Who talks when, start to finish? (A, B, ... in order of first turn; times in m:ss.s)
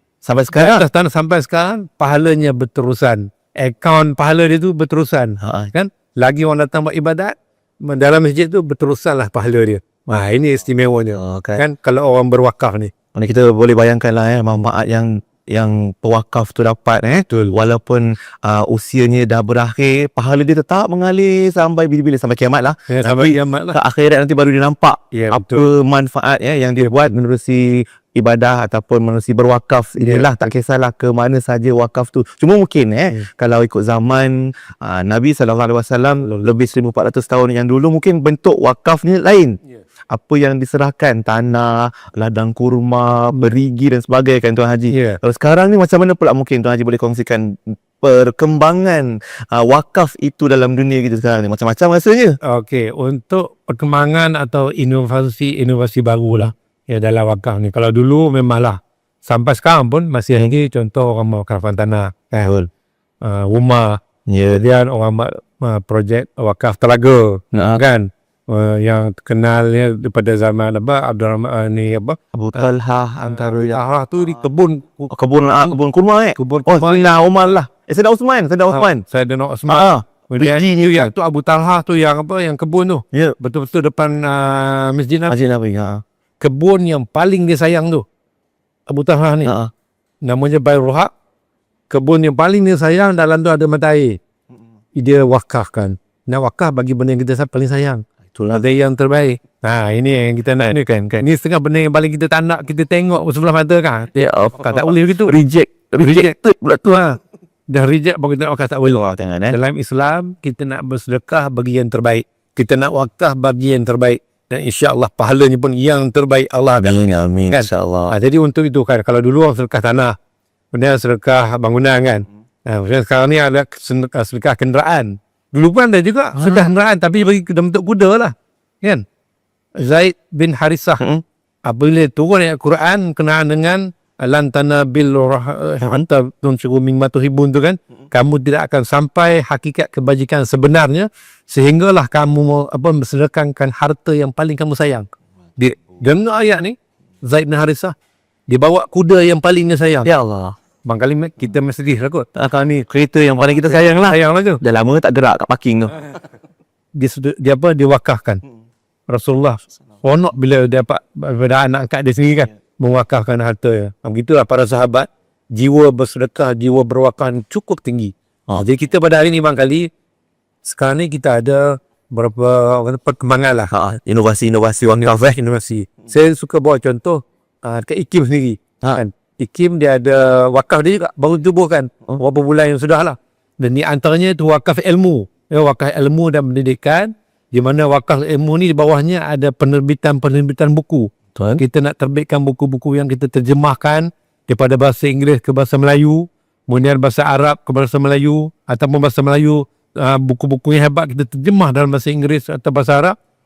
0:00.2-0:00.8 A
0:00.5-0:12.9 B
0:05.4-0:05.7 A
0:11.2-0:11.6 A
0:13.1-0:39.6 A
0:22.9-0:23.8 B
0:25.1-0:25.6 B
0:30.0-0:30.4 B
0:40.1-0:52.4 A
0:44.9-0:45.2 B
0:52.4-1:02.5 B
1:02.4-1:02.7 A
1:03.2-1:04.0 B
1:04.3-1:04.6 A
1:04.5-1:12.6 B
1:07.5-1:07.8 A
1:12.3-1:13.8 A
1:13.3-1:15.1 B
1:15.1-1:19.0 A
1:16.4-1:17.0 B
1:18.7-1:25.3 B
1:19.7-1:21.0 A
1:25.3-1:26.0 A
1:26.4-1:28.0 B
1:28.9-1:29.5 B
1:29.4-1:29.7 A
1:30.3-1:31.1 B
1:31.9-1:34.2 B
1:35.0-1:45.3 B
1:38.3-1:38.6 A
1:40.7-1:41.2 A
1:44.1-1:46.8 A
1:46.8-1:47.2 B
1:47.7-1:49.0 B
1:48.9-1:49.6 A
1:49.5-1:56.9 B
1:56.8-1:58.1 A
1:57.5-2:00.1 B
2:00.7-2:09.0 B
2:06.4-2:06.7 A
2:09.8-2:11.0 B
2:11.6-2:25.1 B
2:25.6-2:27.9 B
2:28.5-2:30.1 B
2:30.1-2:30.6 A
2:30.8-2:32.3 B
2:32.4-2:36.1 A
2:34.1-2:34.6 B
2:37.0-2:38.4 B
2:39.1-2:49.9 B
2:50.6-2:53.7 B
2:53.7-2:55.4 A
2:55.1-3:23.2 B
3:11.4-3:11.6 A